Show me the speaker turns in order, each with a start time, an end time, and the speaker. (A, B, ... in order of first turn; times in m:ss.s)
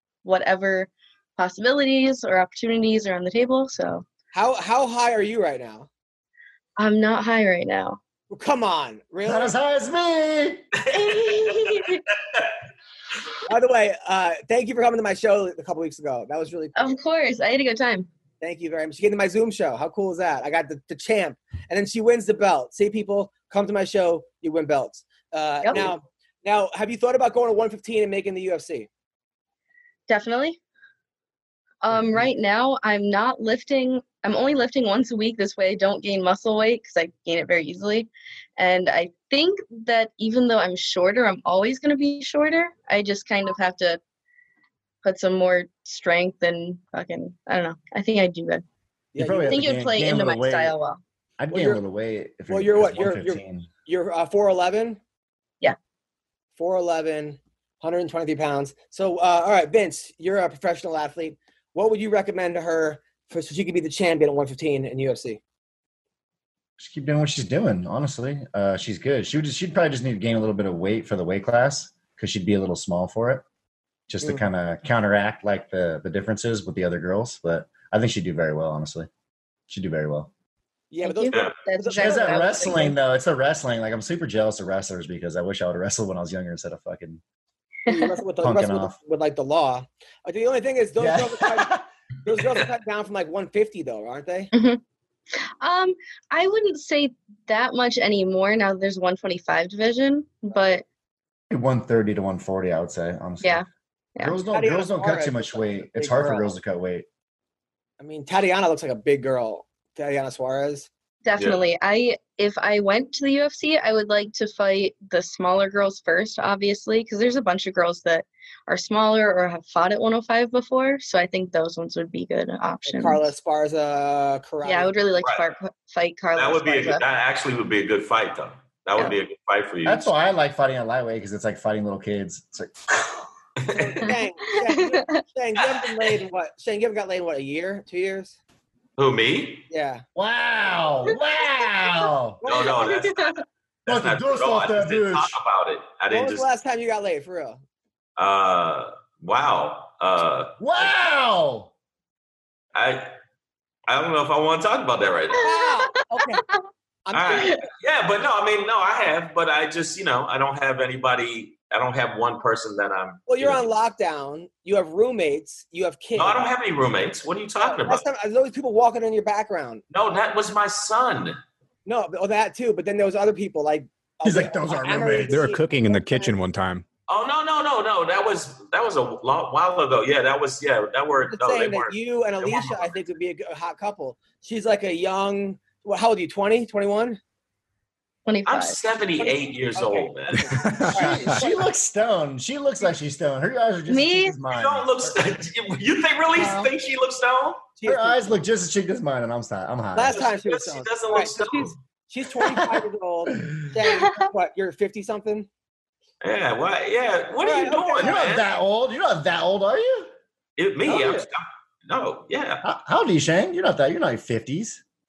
0:00.2-0:04.1 A
0:04.3-0:05.9 B
0:06.8-0:08.0 A
0:08.3-0:09.5 B
0:09.2-0:10.7 C
0:10.8-0:12.5 D
0:10.9-0:12.0 A
0:13.5-0:16.9 B
0:16.8-0:18.1 A
0:18.4-0:28.9 B
0:25.6-0:25.9 A
0:30.1-0:30.6 A
0:31.8-0:44.0 A
0:45.0-0:48.6 A
0:49.1-0:49.7 B
0:49.2-0:50.8 C
0:49.5-0:51.0 A
0:51.4-0:53.7 C
0:51.5-0:51.8 B
0:52.5-0:55.0 B
0:56.6-1:05.4 B
1:06.8-1:13.4 C
1:14.1-1:19.1 C
1:19.7-1:20.3 C
1:20.9-1:22.9 B
1:21.0-1:23.0 A
1:21.3-1:21.6 D
1:21.9-1:27.2 C
1:27.9-1:28.2 A
1:27.9-1:34.5 B
1:28.4-1:29.0 C
1:31.0-1:31.9 C
1:34.5-1:34.8 A
1:35.6-1:40.8 A
1:41.5-1:43.6 C
1:43.4-1:44.4 A
1:44.2-1:47.1 C
1:44.5-1:46.5 B
1:48.0-1:50.9 B
1:51.2-2:03.2 A
1:51.4-1:51.6 D
2:02.9-2:04.9 B
2:04.6-2:07.0 A
2:05.2-2:05.5 D
2:06.4-2:10.1 D
2:09.8-2:13.0 C
2:13.6-2:14.1 D
2:13.7-2:18.4 B
2:14.1-2:15.2 A
2:19.0-2:19.7 D
2:19.7-2:20.0 B
2:20.2-2:22.4 C
2:22.4-2:22.9 B
2:22.4-2:26.5 D
2:22.8-2:23.4 A
2:23.9-2:25.4 C
2:26.1-2:27.6 B
2:28.2-2:30.9 D
2:30.6-2:31.7 C
2:32.7-2:33.1 D
2:33.9-2:35.5 D
2:35.4-2:36.6 A
2:35.4-2:36.4 B
2:37.0-2:37.6 B
2:37.1-2:43.6 D
2:37.3-2:37.6 A
2:43.3-2:46.5 B
2:46.2-2:48.0 D
2:47.6-2:49.8 B
2:49.9-2:51.4 D
2:51.9-2:56.3 B
2:54.2-2:55.5 C
2:55.3-2:56.8 E
2:57.1-3:03.0 D
3:01.3-3:07.2 B
3:08.3-3:08.8 A
3:08.5-3:10.6 D
3:09.2-3:11.5 B
3:10.5-3:11.4 E
3:10.9-3:15.2 C
3:13.9-3:14.4 A
3:14.5-3:17.7 D
3:16.4-3:16.7 A
3:17.8-3:18.4 B
3:17.9-3:20.3 C
3:19.9-3:25.5 B
3:20.1-3:21.8 D
3:22.4-3:22.8 C
3:23.8-3:24.3 A
3:26.2-3:28.5 D
3:27.4-3:28.2 B
3:28.0-3:30.1 C
3:30.6-3:32.6 D
3:30.9-3:31.3 C
3:32.6-3:34.8 C